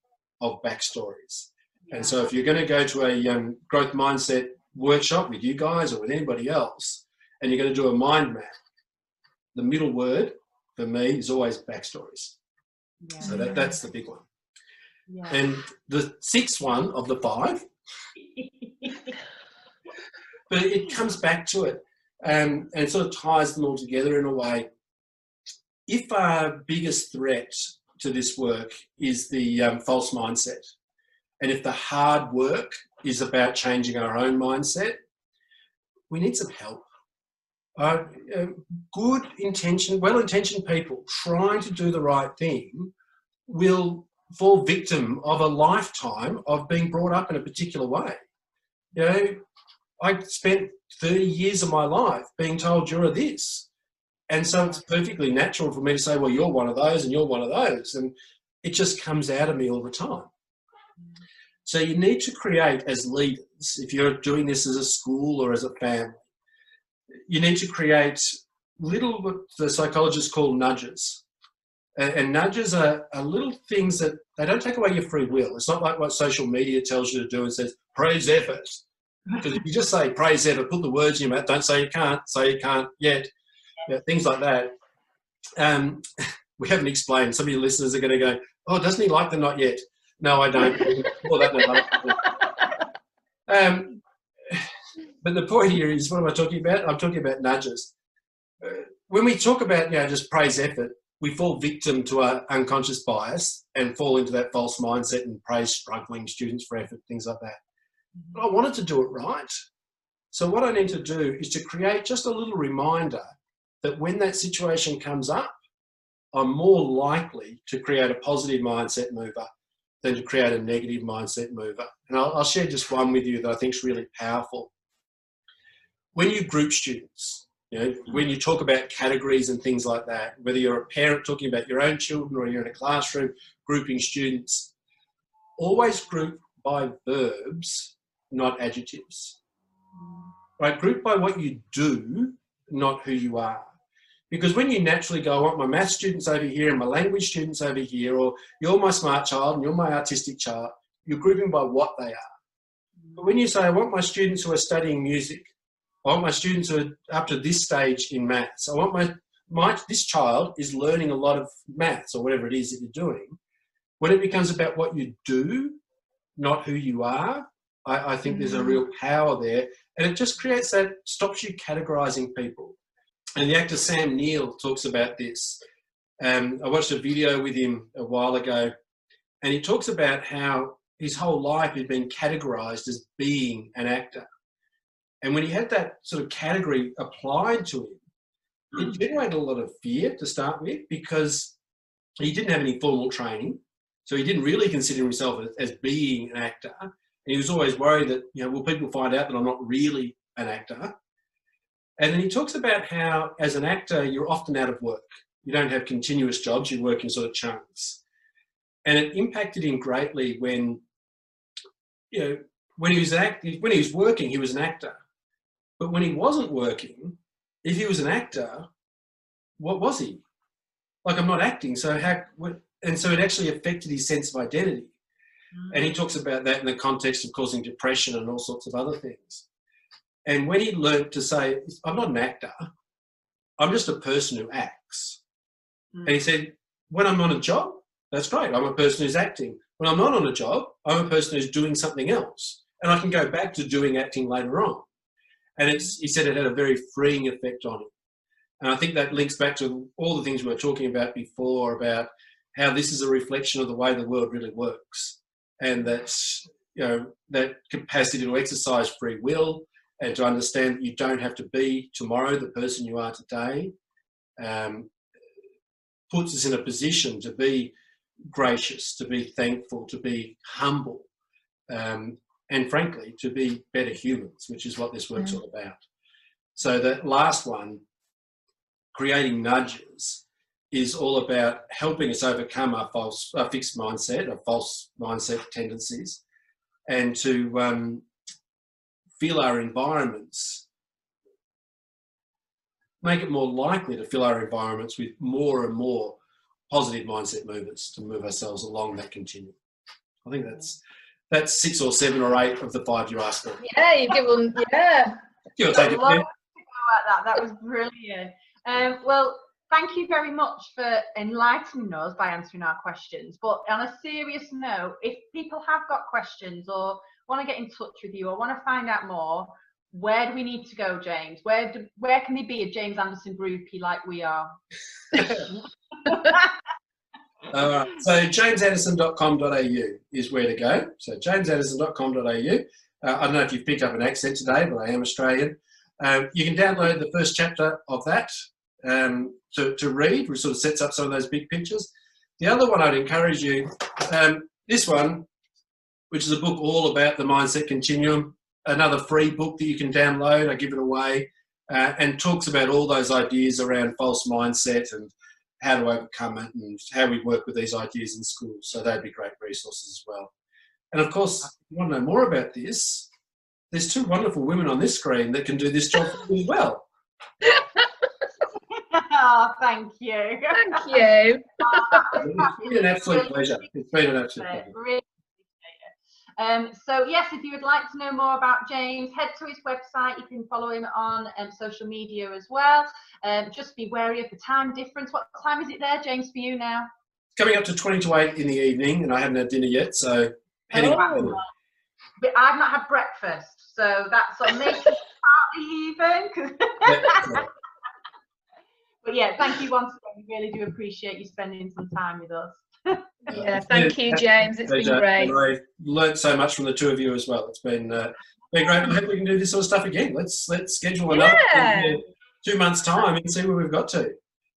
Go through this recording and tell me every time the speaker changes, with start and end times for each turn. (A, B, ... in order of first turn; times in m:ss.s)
0:00.4-0:08.5 A
0:01.8-0:02.2 B
0:09.5-0:12.3 A
0:13.0-0:13.5 B
0:13.2-0:14.2 A
0:13.3-0:13.6 C
0:15.1-0:15.4 B
0:15.3-0:17.7 A
0:18.4-0:19.1 B
0:20.5-0:24.7 A
0:25.9-0:30.7 A
0:31.4-0:35.0 A
0:36.1-0:36.8 A
0:37.8-0:42.9 A
0:43.5-0:48.2 A
0:48.9-0:49.4 A
0:50.0-0:53.7 A
0:54.3-1:00.3 A
1:01.6-1:06.2 A
1:07.3-1:08.2 A
1:08.8-1:11.2 A
1:12.0-1:18.8 A
1:19.4-1:23.3 A
1:23.8-1:24.7 A
1:25.6-1:32.4 A
1:33.5-1:34.7 A
1:35.2-1:37.9 A
1:38.6-1:47.6 A
1:48.3-1:49.5 A
1:50.3-1:53.3 A
1:53.8-1:55.5 A
1:56.3-1:59.5 A
2:00.0-2:04.7 A
2:06.1-2:14.7 A
2:15.6-2:19.4 A
2:20.6-2:23.7 A
2:24.3-2:32.2 A
2:33.2-2:35.5 A
2:36.0-2:43.4 A
2:44.0-2:45.8 A
2:46.4-2:52.8 A
2:53.4-2:55.6 A
2:56.2-2:58.7 A
2:59.4-3:04.3 A
3:05.2-3:08.0 A
3:08.7-3:11.5 A
3:12.2-3:20.9 A
3:22.0-3:28.0 A
3:28.8-3:30.8 A
3:32.1-3:35.0 A
3:35.8-3:38.7 A
3:39.6-3:40.2 A
3:41.0-3:44.9 A
3:45.5-3:46.0 B
3:45.7-3:49.4 A
3:50.2-3:52.7 A
3:53.6-3:55.2 A
3:56.0-4:04.8 A
4:05.6-4:07.9 A
4:08.6-4:23.7 A
4:24.4-4:24.9 A
4:26.1-4:27.7 A
4:28.3-4:31.1 A
4:31.7-4:35.8 A
4:36.6-4:37.8 A
4:38.9-4:46.2 A
4:46.9-4:48.0 A
4:49.2-4:50.6 A
4:53.0-4:56.2 A
4:56.7-4:59.6 A
5:00.2-5:00.8 A
5:01.3-5:03.6 A
5:03.6-5:05.2 C
5:05.6-5:06.2 A
5:05.7-5:24.6 B
5:25.1-5:25.4 A
5:25.1-5:25.5 B
5:26.0-5:26.4 B
5:27.5-5:45.2 A
5:46.1-6:00.3 A
6:00.9-6:03.1 A
6:03.7-6:06.9 A
6:08.7-6:11.0 B
6:10.5-6:12.2 C
6:11.6-6:13.8 B
6:12.1-6:14.7 A
6:14.4-6:26.9 B
6:27.4-6:31.4 A
6:30.7-6:31.5 B
6:32.2-6:37.4 B
6:36.8-6:37.5 A
6:39.0-6:43.3 B
6:43.3-6:54.2 A
6:43.3-6:45.4 C
6:51.1-6:52.0 C